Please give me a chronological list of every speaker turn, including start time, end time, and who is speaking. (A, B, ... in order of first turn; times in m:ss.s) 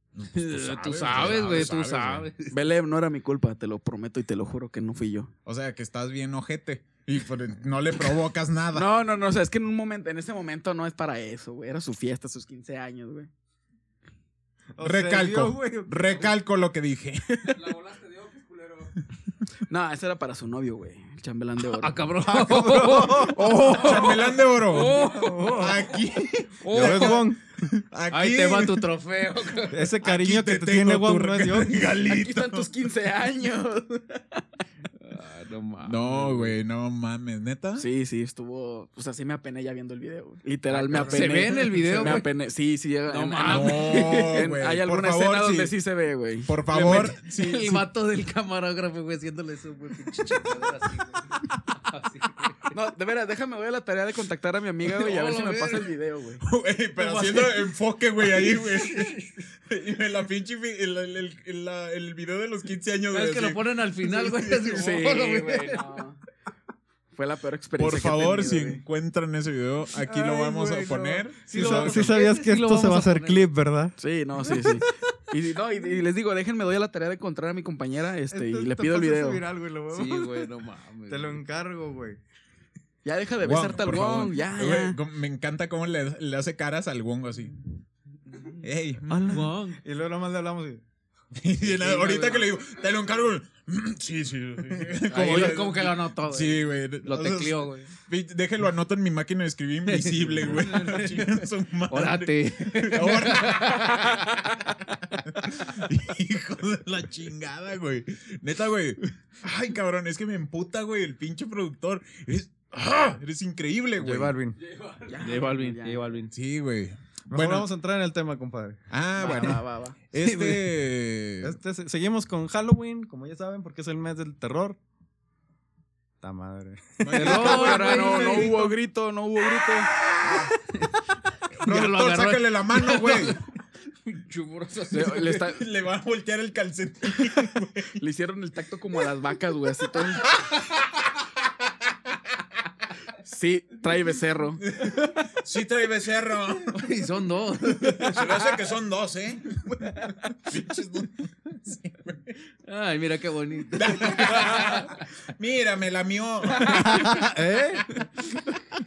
0:00.1-0:02.3 A
0:00.3-0:02.6 B
0:02.5-0:05.3 C
0:05.5-0:08.9 A
0:08.7-0:13.3 C
0:14.8-0:16.3 D
0:14.8-0:17.6 A
0:17.5-0:19.0 E
0:19.7-0:22.0 C
0:21.7-0:25.8 B
0:22.2-0:23.7 D
0:23.3-0:28.9 A
0:25.1-0:25.7 D
0:26.6-0:27.3 B
0:26.7-0:27.4 D
0:28.1-0:29.9 B
0:29.7-0:31.8 D
0:30.0-0:32.7 A
0:32.0-0:34.4 C
0:35.0-0:36.6 B
0:35.8-0:37.9 A
0:37.8-0:46.5 C
0:40.9-0:42.3 B
0:41.9-0:42.2 A
0:43.1-0:44.2 B
0:43.4-0:45.7 A
0:46.4-0:47.8 A
0:46.7-0:52.7 B
0:52.7-0:56.4 C
0:54.9-0:55.9 B
0:56.4-1:04.8 A
0:57.0-0:57.7 B
0:58.4-0:59.1 B
1:03.1-1:06.0 B
1:04.7-1:06.2 C
1:07.1-1:08.8 C
1:07.8-1:12.2 A
1:10.0-1:14.0 D
1:11.5-1:13.5 B
1:14.0-1:19.4 C
1:18.3-1:20.5 D
1:19.9-1:21.4 B
1:21.1-1:22.2 D
1:23.0-1:25.0 C
1:23.4-1:27.5 A
1:28.6-1:29.5 A
1:29.1-1:30.8 D
1:29.3-1:29.8 B
1:31.4-1:44.3 A
1:31.6-1:32.4 D
1:35.1-1:37.9 B
1:39.9-1:44.2 B
1:45.2-1:54.4 A
1:54.0-1:54.6 D
1:54.6-1:55.4 E
1:55.1-1:56.2 C
1:55.2-1:56.3 B
1:56.3-1:57.7 A
1:57.3-1:58.8 D
1:58.9-2:01.6 A
1:59.2-2:00.0 C
2:00.2-2:00.6 B
2:01.4-2:04.8 D
2:06.2-2:07.4 D
2:07.0-2:08.6 A
2:07.1-2:08.7 B
2:07.2-2:09.9 C
2:10.2-2:10.5 A
2:11.6-2:13.4 A
2:11.6-2:13.4 B
2:14.1-2:15.4 B
2:14.9-2:15.6 C
2:15.3-2:18.0 A
2:18.0-2:20.3 C
2:23.2-2:24.6 C
2:24.7-2:27.0 A
2:26.7-2:28.3 B
2:27.8-2:32.4 A
2:32.7-2:35.0 B
2:33.7-2:37.3 A
2:36.6-2:38.0 D